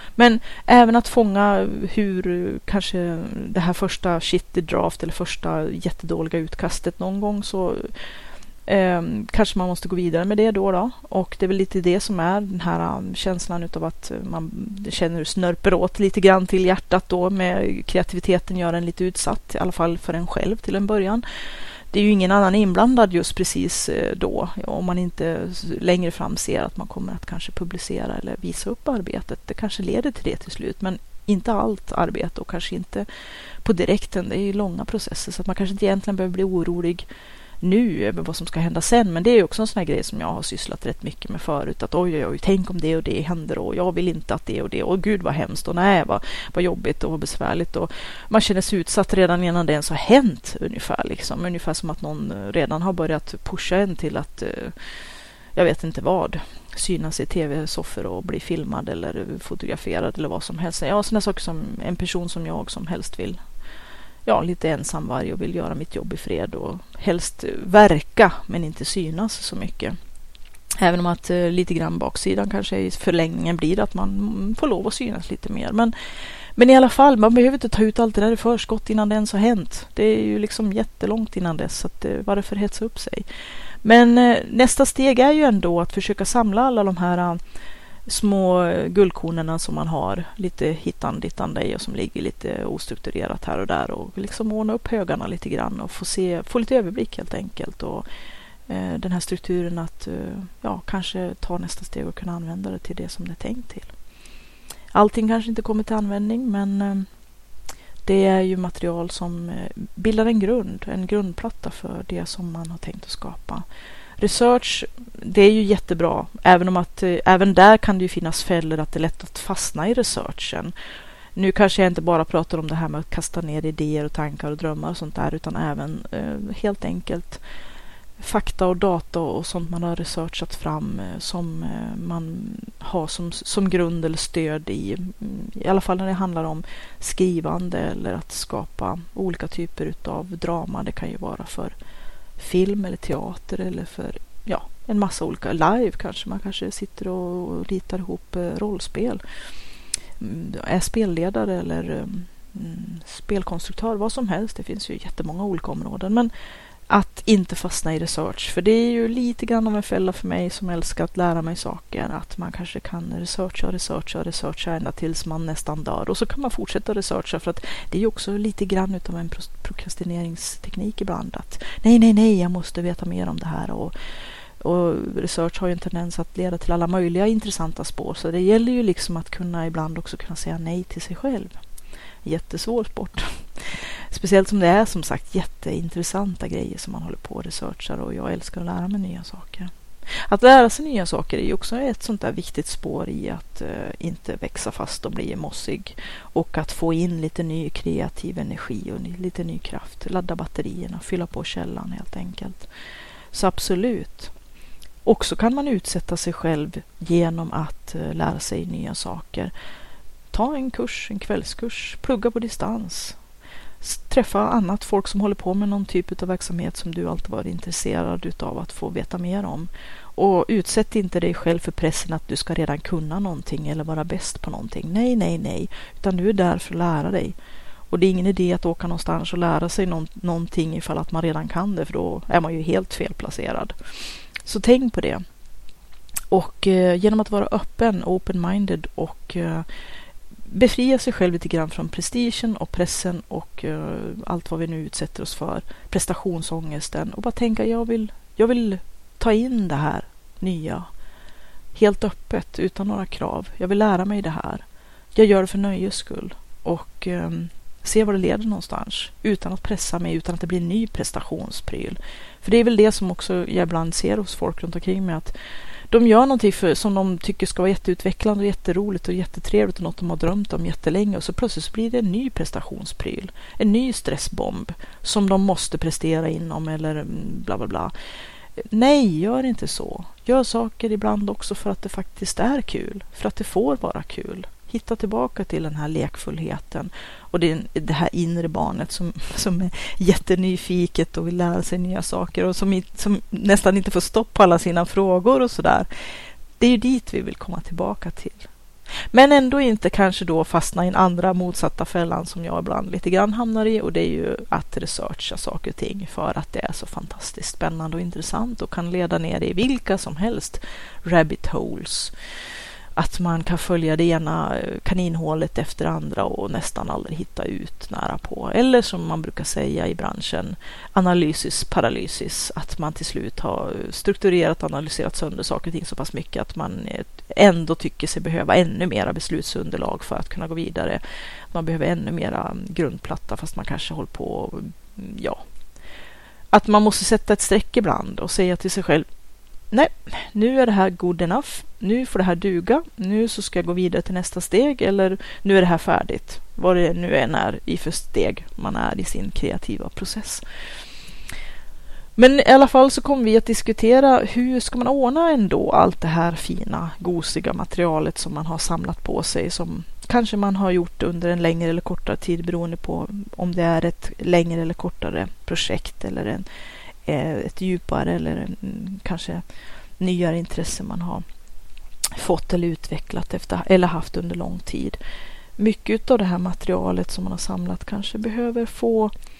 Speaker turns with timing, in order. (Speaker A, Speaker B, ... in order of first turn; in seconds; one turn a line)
Speaker A: 0.2-7.9
Speaker A: 8.7-21.2
Speaker A: 21.9-33.1
Speaker A: 33.6-37.1
Speaker A: 37.6-54.8
Speaker A: 55.5-63.4
Speaker A: 64.2-70.0
Speaker A: 70.8-75.9
Speaker A: 76.5-83.2
Speaker A: 83.8-87.4
Speaker A: 88.1-98.0
Speaker A: 98.7-103.9
Speaker A: 104.9-107.1
Speaker A: 108.0-113.6
Speaker A: 114.2-120.7
Speaker A: 121.3-127.4
Speaker A: 128.2-141.7
Speaker A: 142.4-149.2
Speaker A: 150.2-156.3
Speaker A: 156.9-173.9
Speaker A: 174.6-181.6
Speaker A: 182.2-202.7
Speaker A: 203.3-204.3
Speaker A: 205.0-209.5
Speaker A: 210.3-213.2
Speaker A: 213.8-227.3
Speaker A: 227.9-233.7
Speaker A: 234.4-235.2
Speaker A: 236.3-239.7
Speaker A: 240.5-250.9
Speaker A: 251.7-254.6
Speaker A: 255.1-265.3
Speaker A: 265.9-277.9
Speaker A: 278.6-295.9
Speaker A: 296.6-298.5
Speaker A: 299.1-312.1
Speaker A: 312.9-331.0
Speaker A: 331.5-335.4
Speaker A: 336.5-339.1
Speaker A: 339.7-350.4
Speaker A: 352.2-366.4
Speaker A: 367.1-369.4
Speaker A: 370.0-371.2
Speaker A: 372.1-375.0
Speaker A: 375.6-379.1